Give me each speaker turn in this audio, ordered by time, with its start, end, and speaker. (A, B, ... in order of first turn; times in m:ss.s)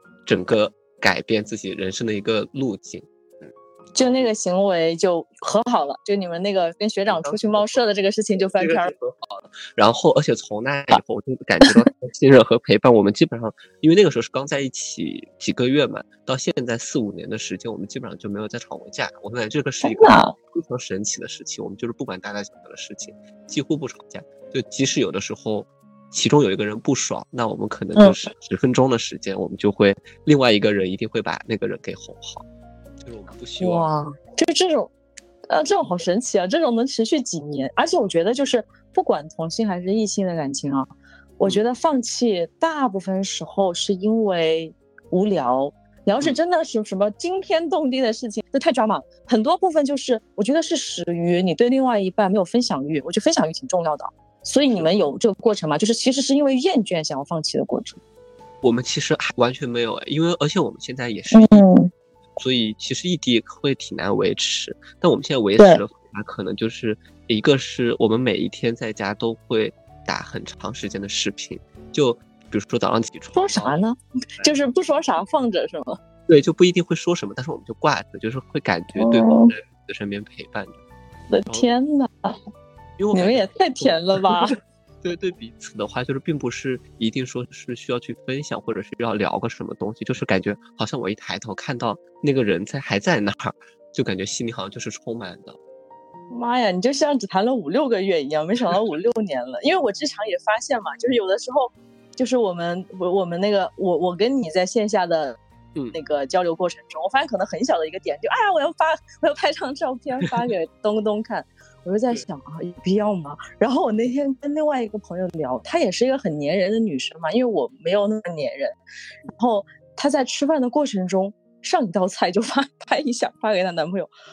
0:00.2-0:04.2 A
0:03.9-0:08.9 B
0:07.1-0:07.9 A
0:08.5-0:32.4 A
0:19.8-0:20.3 B
0:28.0-0:28.2 B
0:33.0-0:33.9 A
0:33.6-0:34.9 B
0:35.5-0:58.0 B
0:58.6-1:01.7 A
1:01.3-1:01.9 B
1:02.4-1:13.8 A
1:13.3-1:16.0 B
1:16.3-1:20.8 A
1:19.0-1:19.5 B
1:21.3-1:22.4 B
1:23.0-1:24.5 A
1:23.1-1:24.5 B
1:25.0-1:35.6 A
1:36.3-1:45.4 B
1:45.9-2:04.1 B